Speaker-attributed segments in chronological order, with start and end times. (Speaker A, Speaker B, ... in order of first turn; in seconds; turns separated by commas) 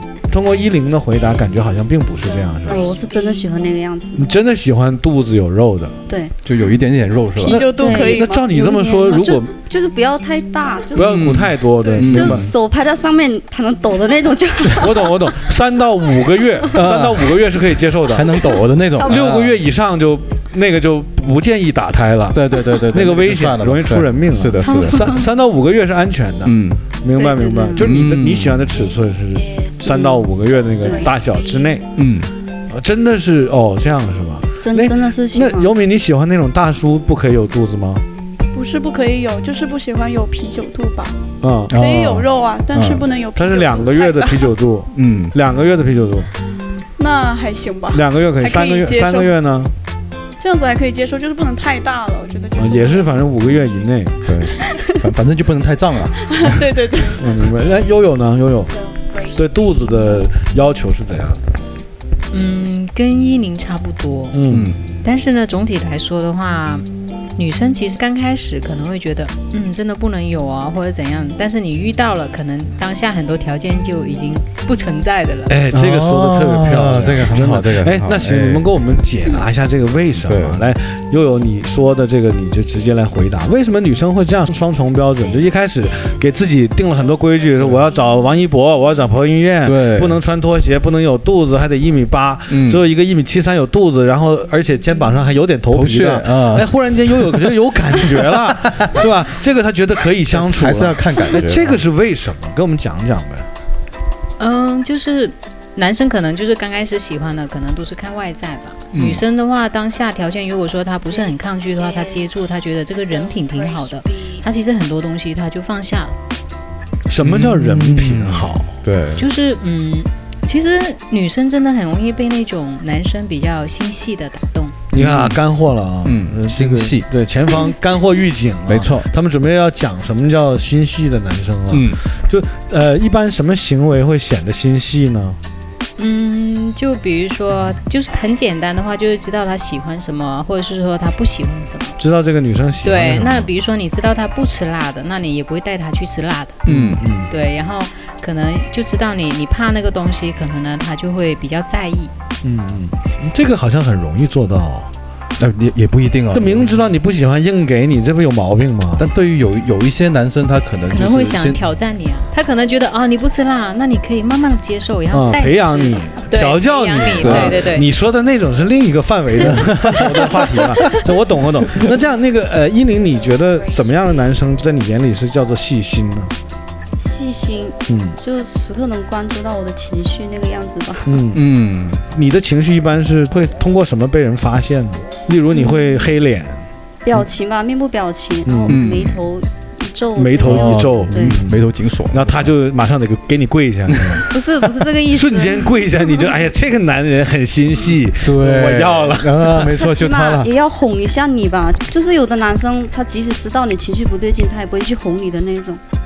Speaker A: 0.3-2.9, Speaker B: 2.7-4.3, Speaker A: 4.2-6.0, Speaker B: 6.1-6.3, Speaker C: 6.5-7.6, Speaker D: 7.4-8.5, Speaker A: 7.4-9.5, Speaker B: 7.7-15.3, Speaker A: 10.9-12.5, Speaker C: 10.9-12.5, Speaker A: 14.7-31.9, Speaker C: 16.7-17.5, Speaker C: 18.0-19.6, Speaker C: 22.3-25.2, Speaker B: 24.6-25.3, Speaker C: 26.4-26.8, Speaker B: 27.1-27.9, Speaker C: 27.8-28.8, Speaker E: 29.5-30.0, Speaker B: 29.9-30.2, Speaker E: 30.8-31.7, Speaker C: 31.9-32.3, Speaker A: 32.7-38.0, Speaker B: 34.6-35.7, Speaker D: 38.5-41.2, Speaker A: 41.4-41.7, Speaker C: 41.7-43.1, Speaker D: 41.7-44.5, Speaker A: 43.4-46.3, Speaker C: 44.9-45.4, Speaker D: 47.0-49.4, Speaker A: 47.9-49.7, Speaker D: 50.4-53.3, Speaker A: 52.6-54.2, Speaker C: 54.2-56.6, Speaker D: 56.3-57.3, Speaker A: 57.2-58.8, Speaker E: 58.7-59.9, Speaker A: 59.4-61.4, Speaker F: 62.3-64.4, Speaker A: 64.3-64.8, Speaker C: 64.5-64.8, Speaker F: 65.0-66.8, Speaker F: 67.4-75.6, Speaker A: 75.5-103.5, Speaker C: 75.7-78.7, Speaker C: 80.2-80.7, Speaker C: 87.6-87.9, Speaker C: 89.6-90.2, Speaker C: 92.5-92.8, Speaker C: 95.7-99.1, Speaker C: 100.3-101.8, Speaker F: 104.4-116.2, Speaker C: 108.9-109.2, Speaker E: 111.2-112.2, Speaker E: 113.1-114.5, Speaker A: 117.1-118.7, Speaker C: 117.2-119.2, Speaker F: 119.2-124.8, Speaker A: 124.9-135.4, Speaker C: 124.9-125.4, Speaker C: 126.0-127.1, Speaker C: 128.7-129.1, Speaker C: 131.7-132.0, Speaker F: 136.0-142.0, Speaker A: 142.0-143.5, Speaker F: 142.8-146.6, Speaker C: 146.7-147.1, Speaker A: 146.7-147.3, Speaker F: 147.3-152.1, Speaker A: 152.4-154.9, Speaker C: 155.4-156.9, Speaker A: 156.3-159.1, Speaker C: 159.0-161.6, Speaker F: 160.9-167.9, Speaker A: 165.1-176.3, Speaker C: 167.2-167.7, Speaker C: 169.4-170.8, Speaker E: 173.8-174.4, Speaker B: 177.0-181.2, Speaker A: 177.9-178.2, Speaker A: 181.1-181.5, Speaker C: 181.3-182.0, Speaker A: 182.1-186.6, Speaker B: 185.5-186.0, Speaker B: 187.0-191.4, Speaker A: 188.5-188.9, Speaker C: 188.7-189.2, Speaker A: 190.2-194.3, Speaker C: 190.4-192.5, Speaker C: 193.9-194.2, Speaker B: 194.3-196.3, Speaker A: 195.1-199.8, Speaker C: 198.2-200.5, Speaker B: 199.7-205.8